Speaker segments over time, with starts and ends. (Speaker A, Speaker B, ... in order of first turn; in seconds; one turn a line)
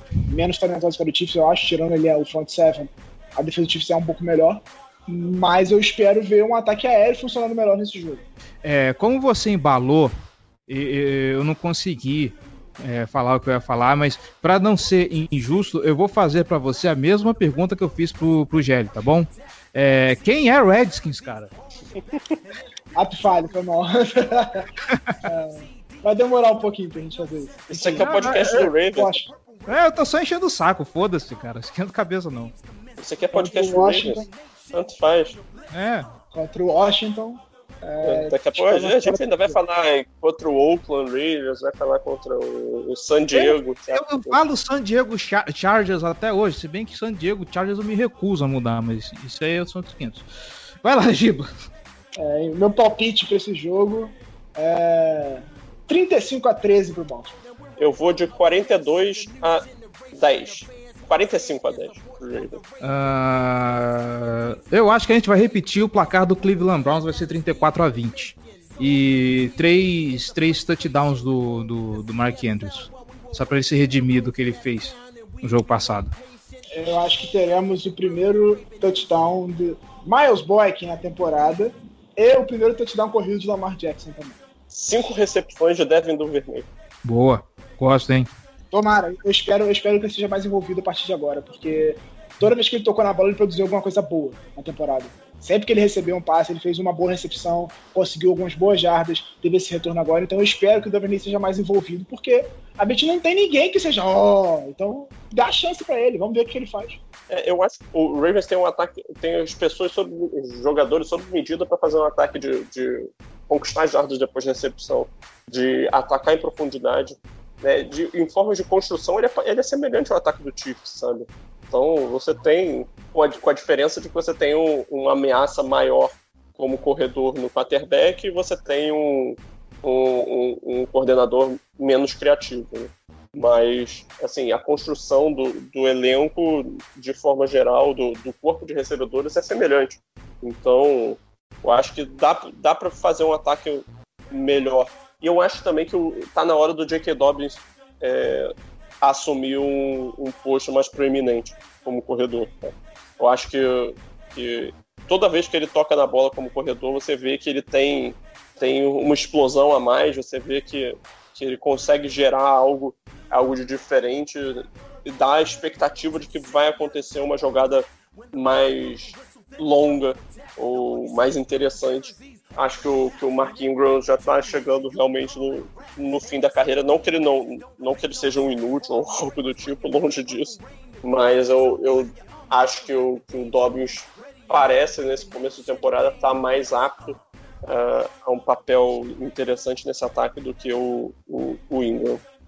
Speaker A: 0.2-8.2
Speaker B: 8.6-10.1
Speaker B: 10.7-21.5
Speaker C: 21.9-22.4
Speaker A: 22.9-24.7
Speaker A: 25.2-29.3
Speaker C: 27.7-29.1
Speaker B: 27.9-28.7
Speaker B: 29.7-32.5
Speaker C: 33.0-35.4
Speaker A: 33.3-34.3
Speaker B: 35.7-36.1
Speaker A: 36.3-39.6
Speaker C: 38.0-44.4
Speaker B: 43.3-50.3
Speaker B: 50.8-51.5
Speaker A: 52.1-57.4
Speaker C: 57.8-62.6
Speaker B: 62.8-76.1
Speaker A: 76.7-84.4
Speaker C: 84.7-86.7
Speaker B: 87.0-88.3
Speaker A: 88.7-107.0
Speaker C: 107.3-192.2